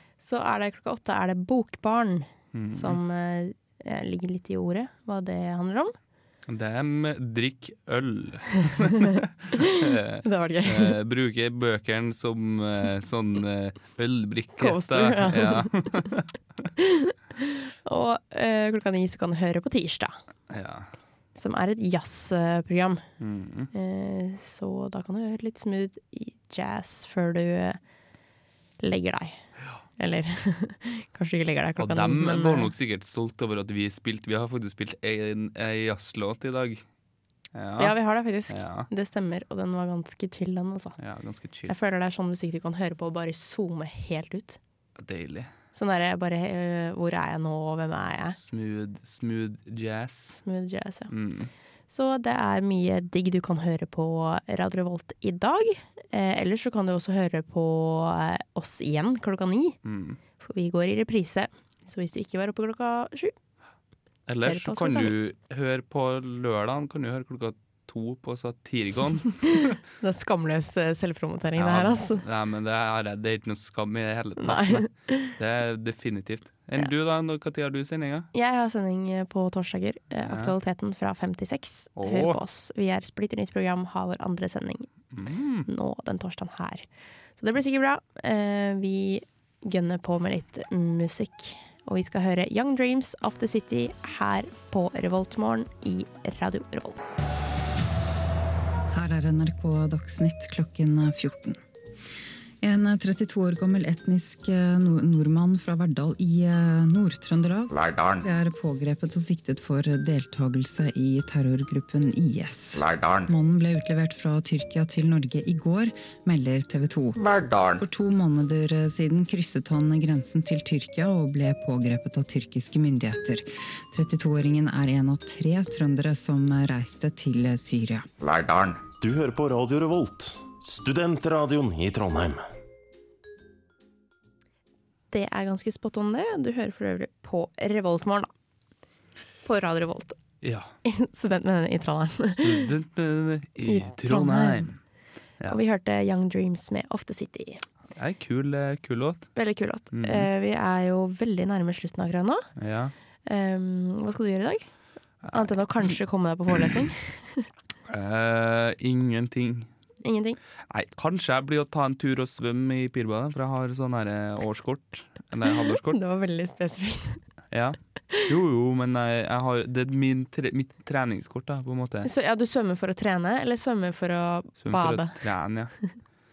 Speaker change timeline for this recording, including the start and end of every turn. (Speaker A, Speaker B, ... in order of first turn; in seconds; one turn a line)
Speaker A: 0.2-5.9
Speaker B: 2.5-3.0
Speaker B: 6.5-16.3
Speaker A: 10.2-11.0
Speaker A: 14.6-16.1
Speaker A: 16.8-20.2
Speaker B: 20.5-20.9
Speaker A: 21.4-23.0
Speaker B: 23.2-23.7
Speaker A: 23.7-27.8
Speaker A: 28.8-29.4
Speaker A: 30.0-32.7
Speaker B: 31.8-36.8
Speaker B: 37.5-38.0
Speaker A: 37.8-41.0
Speaker B: 38.5-38.9
Speaker B: 41.0-41.7
Speaker A: 41.7-44.6
Speaker B: 45.0-45.5
Speaker A: 45.7-48.4
Speaker B: 48.3-50.4
Speaker A: 50.4-51.1
Speaker B: 51.1-51.5
Speaker A: 51.9-59.8
Speaker B: 59.8-60.2
Speaker A: 60.4-63.3
Speaker B: 64.3-69.8
Speaker A: 64.4-65.1
Speaker A: 70.0-72.2
Speaker B: 71.5-78.3
Speaker A: 74.4-75.3
Speaker A: 78.3-84.9
Speaker B: 80.2-80.5
Speaker B: 82.0-82.4
Speaker B: 85.1-85.7
Speaker A: 85.7-86.8
Speaker A: 87.4-97.0
Speaker C: 98.9-101.6
Speaker C: 102.6-128.1
Speaker D: 107.7-108.2
Speaker D: 112.8-113.2
Speaker D: 117.2-117.7
Speaker D: 128.2-128.8
Speaker E: 129.0-132.4
Speaker A: 135.1-138.3
Speaker A: 139.4-140.2
Speaker B: 140.4-140.7
Speaker A: 140.8-142.7
Speaker B: 142.3-144.8
Speaker A: 143.6-144.7
Speaker A: 145.4-147.6
Speaker B: 147.9-149.3
Speaker A: 149.3-152.5
Speaker B: 149.9-150.3
Speaker B: 152.6-152.9
Speaker A: 153.2-154.7
Speaker B: 155.2-155.6
Speaker A: 155.3-157.5
Speaker B: 157.9-159.7
Speaker A: 160.0-160.4
Speaker B: 160.7-166.0
Speaker A: 165.6-167.2
Speaker B: 167.5-172.1
Speaker A: 172.0-175.3
Speaker B: 174.6-175.8